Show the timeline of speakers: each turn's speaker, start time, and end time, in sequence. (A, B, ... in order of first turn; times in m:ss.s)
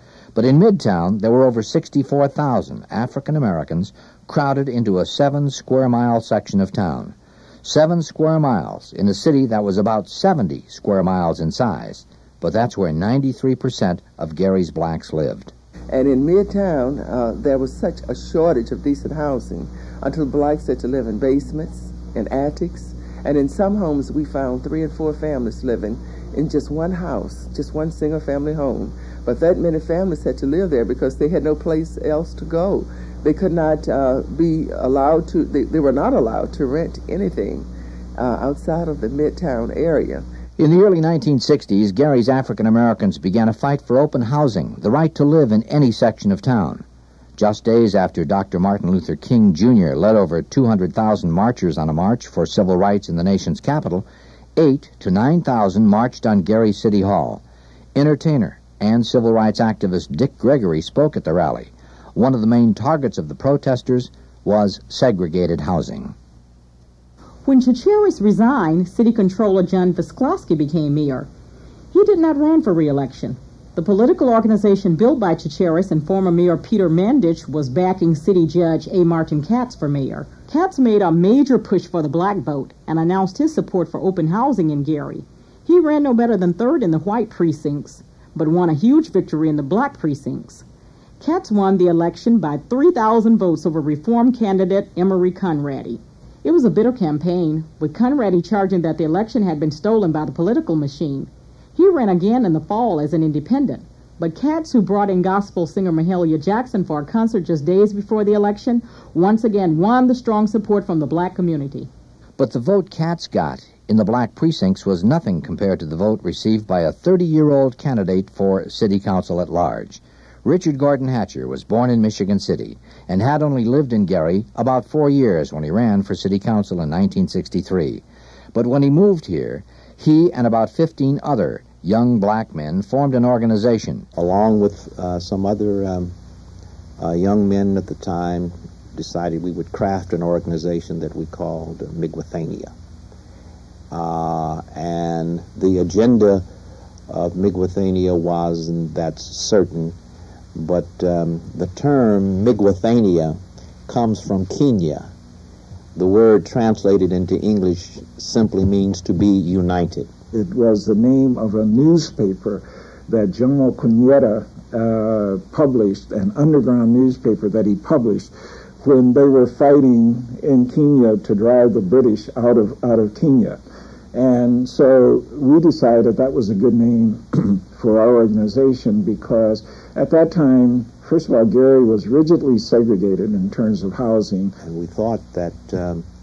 0:00.3-0:15.5 A
0:15.9-0:37.7 B
0:38.2-0:40.2 B
0:40.6-0:46.8 A
0:47.4-0:57.4 A
0:57.9-1:06.1 A
1:07.4-1:11.3 C
1:11.9-1:30.6 C
1:31.2-1:51.9 C
1:52.4-2:14.1 A
2:14.1-2:16.1 D
2:17.0-2:22.7 D
2:23.9-2:26.4 D
2:27.1-2:30.0 D
2:30.5-2:35.1 D
2:36.0-2:40.1 D
2:40.3-2:53.6 E
2:54.1-3:04.6 E
3:04.6-3:06.0 D